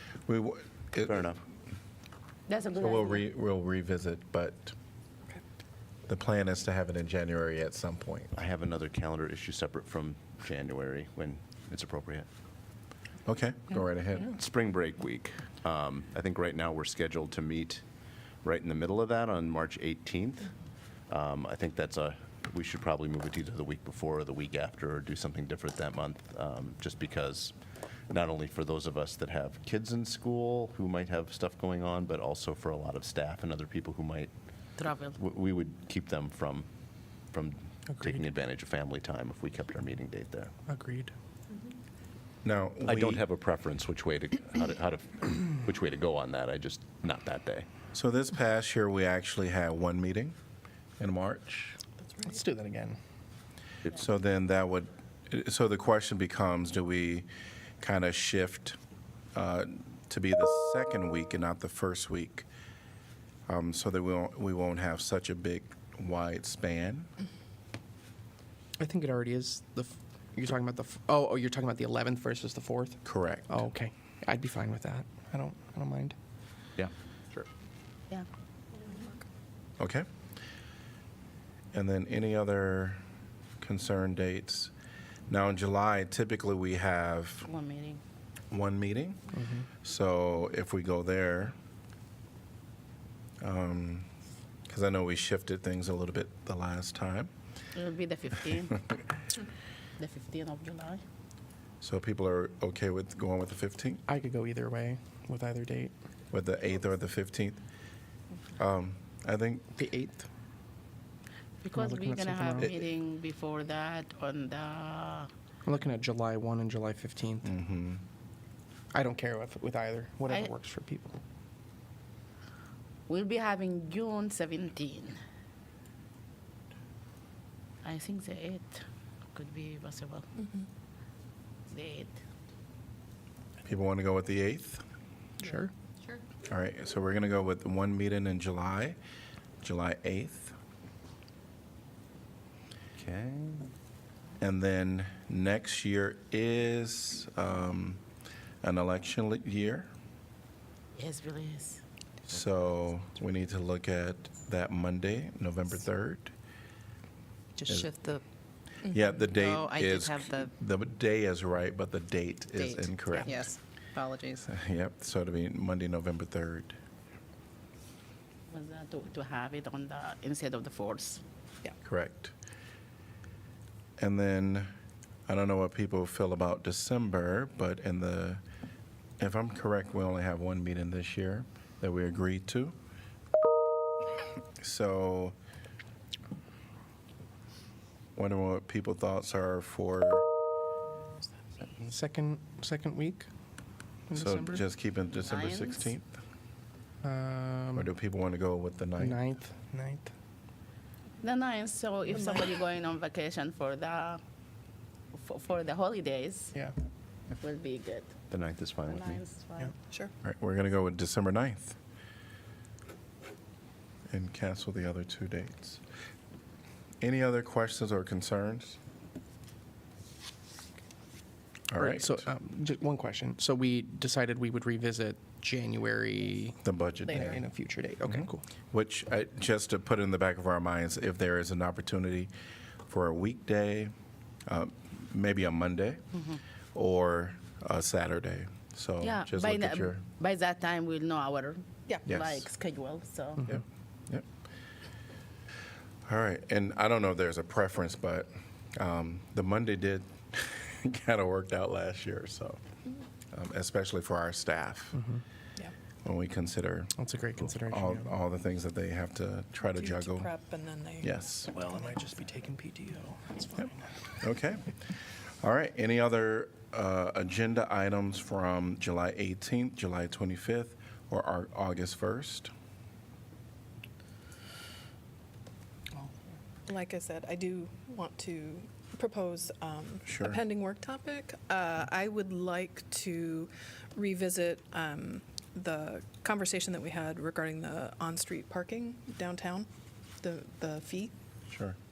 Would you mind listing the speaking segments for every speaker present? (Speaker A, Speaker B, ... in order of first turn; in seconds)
Speaker A: 0.2-1.3, 2.8-4.7, 6.1-8.3, 13.2-14.3, 42.4-43.2, 47.9-50.4, 51.0-51.8, 53.9-57.3, 57.8-58.8, 59.3-62.5, 63.5-67.1, 73.0-73.6, 79.8-80.0, 81.7-83.0, 83.6-84.7, 85.3-87.5, 88.5-89.3, 89.8-91.5, 93.4-94.1, 94.7-97.3, 101.8-104.0, 106.3-107.6, 108.6-109.7, 117.4-118.0, 133.6-134.8, 136.5-139.0, 139.6-140.5, 144.4-148.0, 148.6-149.9, 152.3-156.3, 158.9-163.4, 164.4-166.7, 171.8-172.3, 174.0-174.7, 175.3-178.4, 179.2-182.7, 184.6-185.3, 188.2-190.2, 194.1-196.2, 197.7-199.2, 210.2-211.8, 214.1-215.8, 217.0-218.8, 221.7-222.2, 226.6-227.4, 228.1-232.3, 232.9-233.9, 234.5-236.0, 236.7-240.0, 242.1-242.5, 243.5-244.2, 246.1-252.6, 253.3-255.0, 256.0-256.9, 257.5-260.3, 261.0-261.5, 264.2-264.8, 265.4-272.5, 280.1-280.4, 291.5-291.8
Speaker B: 1.0-1.4, 8.3-12.3, 14.2-17.8, 18.4-20.5, 21.1-27.5, 28.1-34.3, 35.2-36.7, 37.3-40.5, 42.9-47.7, 76.8-77.5, 143.0-143.7, 208.3-209.2
Speaker C: 2.5-3.2, 34.8-35.2, 87.5-88.0, 97.7-98.8, 100.0-101.0, 111.6-115.3, 123.1-125.2, 127.8-130.3, 131.7-132.1, 150.9-151.8, 168.5-171.2, 195.2-195.9, 201.2-204.2, 205.1-206.6, 207.3-208.1, 208.8-209.7, 239.0-243.6
Speaker D: 40.7-41.1, 52.2-53.0, 68.8-73.0, 73.5-76.2, 104.1-105.9, 109.8-110.2, 111.8-112.7, 115.7-117.5, 118.9-121.2, 191.8-193.3, 194.2-194.6, 197.0-197.8, 199.0-200.1, 221.8-226.6, 227.1-228.4, 257.1-258.0, 261.6-263.7
Speaker E: 157.6-158.2, 159.1-160.5, 162.6-164.4
Speaker F: 163.3-163.6, 202.2-202.5, 259.7-261.1, 276.7-289.7, 290.2-291.1